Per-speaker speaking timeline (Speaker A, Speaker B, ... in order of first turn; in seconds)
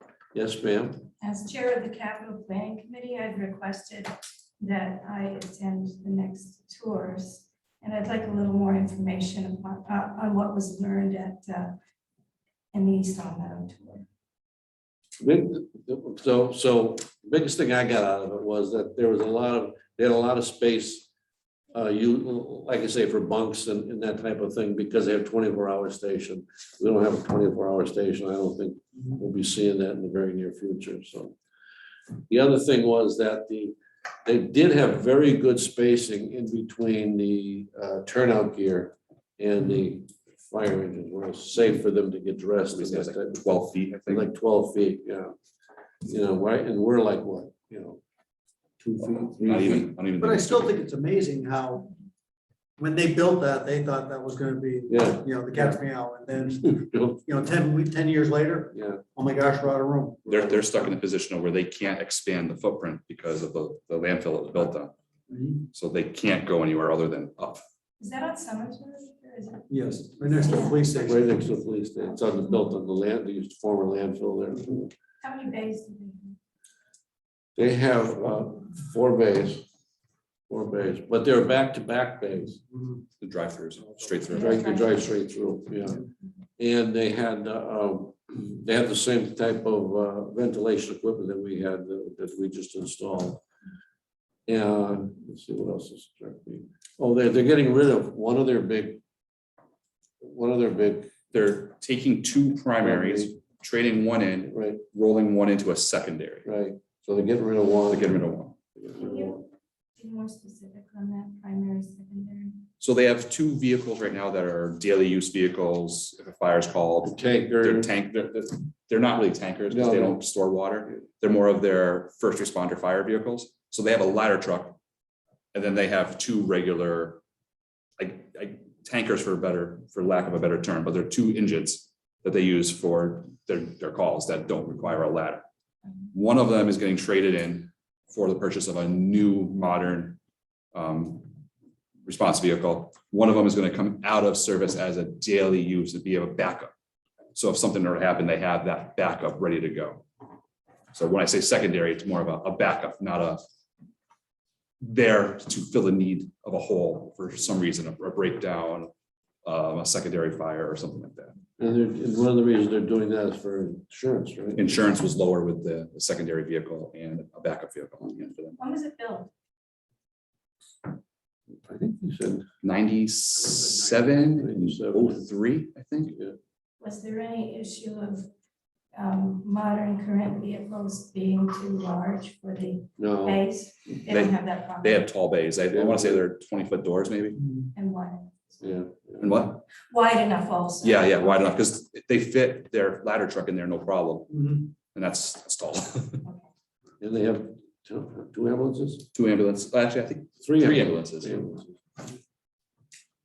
Speaker A: 0.3-1.1, 15.2-21.1, 21.7-31.4, 32.3-45.4, 46.0-48.0, 48.8-49.9, 54.9-55.8, 56.6-57.2, 58.7-59.0, 60.3-60.8, 71.1-74.9, 77.6-79.7, 80.5-82.6, 84.3-86.1, 86.6-93.5, 94.5-99.0, 100.2-101.2, 102.8-103.3, 104.5-104.8, 106.5-108.2, 108.8-109.4, 117.0-117.9, 119.7-120.2, 161.6-164.8, 171.5-172.5, 173.6-175.3, 176.1-176.4, 183.0-183.4, 185.7-186.2, 188.6-189.3, 197.0-199.1, 200.4-201.8
Speaker B: 1.2-11.8, 12.7-14.1, 68.0-69.8, 70.4-71.3, 75.2-76.4, 84.3-85.2, 109.0-112.7, 168.6-169.3, 176.8-178.3, 178.9-185.1, 187.8-188.3, 189.9-191.5
Speaker C: 42.7-44.3, 49.5-50.7, 60.3-64.9, 65.7-67.6, 83.2-84.8, 101.3-106.5, 107.9-108.6, 112.8-124.8, 125.5-127.2, 128.0-135.4, 136.1-140.2, 140.7-141.3, 142.1-146.7, 147.3-150.0, 150.9-153.4, 154.8-158.9, 159.4-161.4, 164.6-168.6, 172.6-176.2, 184.1-187.4, 189.2-189.7, 190.8-196.2, 199.1-201.4
Speaker D: 50.2-51.9, 52.8-60.3, 65.3-65.7, 69.7-71.5, 187.4-187.7, 194.3-194.6